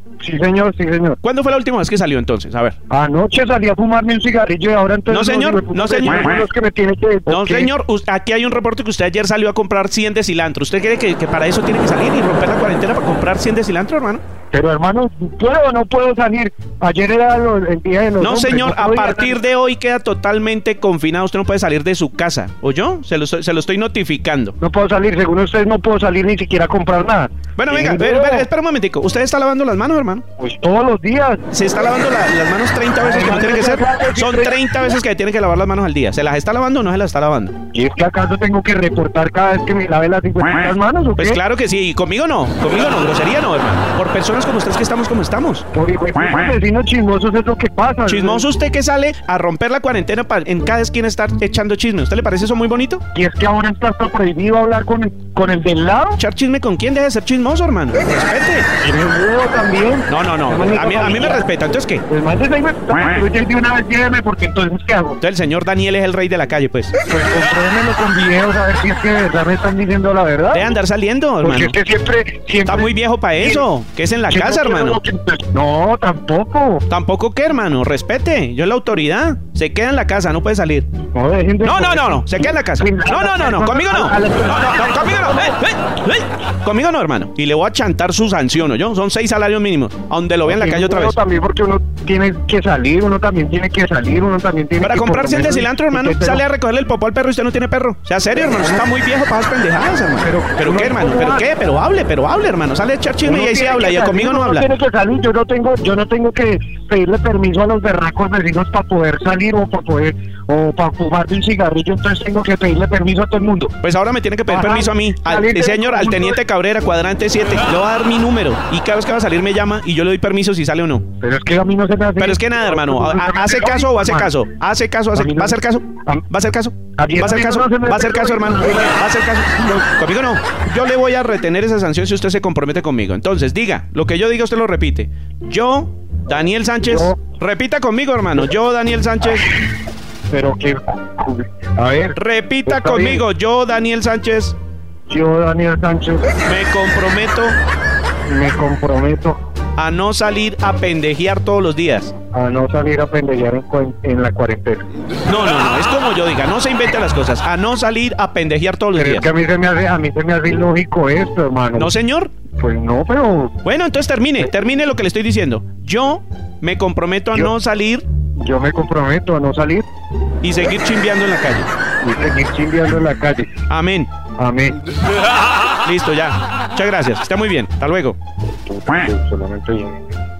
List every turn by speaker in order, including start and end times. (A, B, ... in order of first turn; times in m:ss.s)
0:00.2-0:01.2 A
0:01.2-0:02.8 B
0:02.9-0:07.7 A
0:05.1-0:06.4 B
0:07.3-0:14.2 B
0:14.5-0:19.4 A
0:18.2-0:24.5 B
0:24.6-0:28.5 A
0:27.6-0:30.2 B
0:30.4-0:31.4 A
0:31.5-0:37.6 B
0:33.0-0:34.6 A
0:37.7-0:41.4 A
0:41.2-0:45.6 B
0:45.7-0:48.5 A
0:48.1-0:53.0 B
0:53.1-0:56.2 A
0:56.2-0:58.7 B
0:58.8-1:01.5 A
1:00.1-1:02.0 B
1:02.1-1:05.2 A
1:05.2-1:06.9 B
1:07.1-1:10.7 A
1:10.5-1:11.8 B
1:11.4-1:13.6 A
1:12.6-1:15.0 B
1:14.3-1:16.8 A
1:16.9-1:20.9 B
1:21.1-1:25.3 A
1:21.6-1:31.1 B
1:30.4-1:36.4 A
1:34.8-1:44.7 B
1:38.5-1:38.8 A
1:40.2-1:41.5 A
1:43.2-1:53.7 A
1:53.8-2:01.0 B
1:54.5-1:56.4 A
2:01.2-2:04.3 A
2:02.2-2:19.5 B
2:05.1-2:06.2 A
2:07.0-2:09.0 A
2:16.8-2:17.2 A
2:20.3-2:23.2 A
2:22.1-2:24.6 B
2:25.1-2:26.3 A
2:26.4-2:27.6 B
2:28.3-2:29.4 A
2:29.8-2:32.1 B
2:32.3-2:34.8 A
2:35.2-2:39.2 B
2:38.9-2:41.9 A
2:41.7-2:42.3 B
2:42.6-2:43.6 A
2:43.6-2:48.0 B
2:48.4-2:49.8 A
2:50.4-2:51.7 B
2:52.0-2:53.5 A
2:53.7-2:54.1 B
2:54.4-2:54.8 A
2:55.8-2:58.2 B
2:58.6-3:00.1 A